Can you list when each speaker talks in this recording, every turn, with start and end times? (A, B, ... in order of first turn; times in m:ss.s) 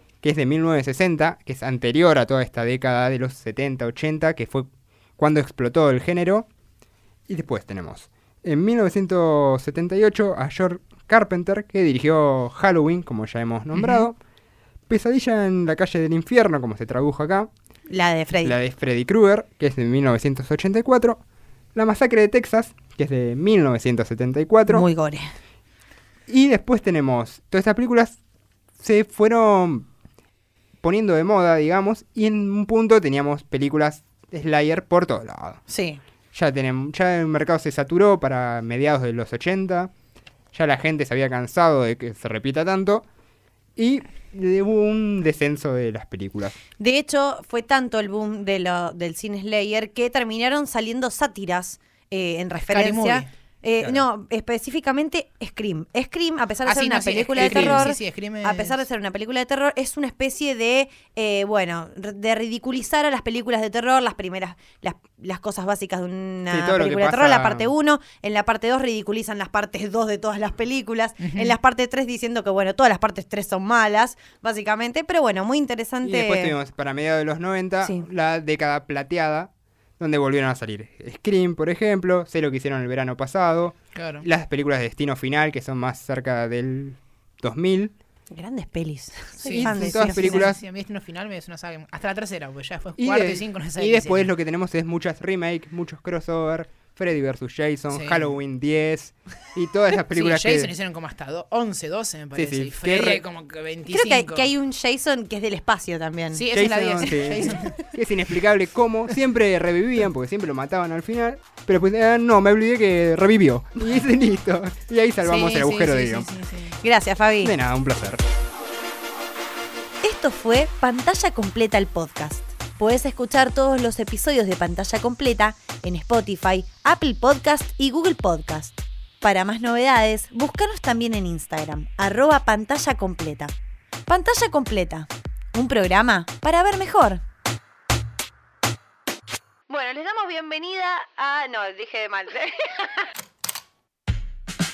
0:00.2-0:06.5 A
0:07.3-0:14.2 A
0:13.7-0:14.1 B
0:14.9-0:17.5 A
0:17.9-0:18.6 C
0:18.4-0:21.2 A
0:21.7-0:24.8 A
0:24.7-0:25.3 C
0:26.3-0:28.2 A
0:28.8-0:29.9 A
0:30.8-0:35.6 A
0:35.7-0:36.0 C
0:36.3-0:39.9 A
0:40.5-0:43.0 A
0:43.8-0:46.6 A
0:46.8-1:16.5 C
0:52.6-0:53.3 B
0:56.6-0:58.8 B
0:57.4-0:57.8 A
1:06.5-1:07.7 A
1:11.2-1:11.6 B
1:16.0-1:27.9 A
1:23.9-1:24.3 B
1:28.3-1:30.5 C
1:29.4-1:34.3 B
1:29.5-1:30.6 A
1:33.0-1:40.7 A
1:37.9-1:38.3 B
1:40.1-1:44.5 B
1:42.3-1:43.2 A
1:43.9-1:46.4 C
1:46.3-1:47.8 B
1:46.5-1:56.3 A
1:55.2-1:56.8 B
1:56.8-1:57.5 C
1:57.4-1:58.2 A
2:00.0-2:13.5 C
2:14.1-2:17.2 C
2:19.7-2:23.0 C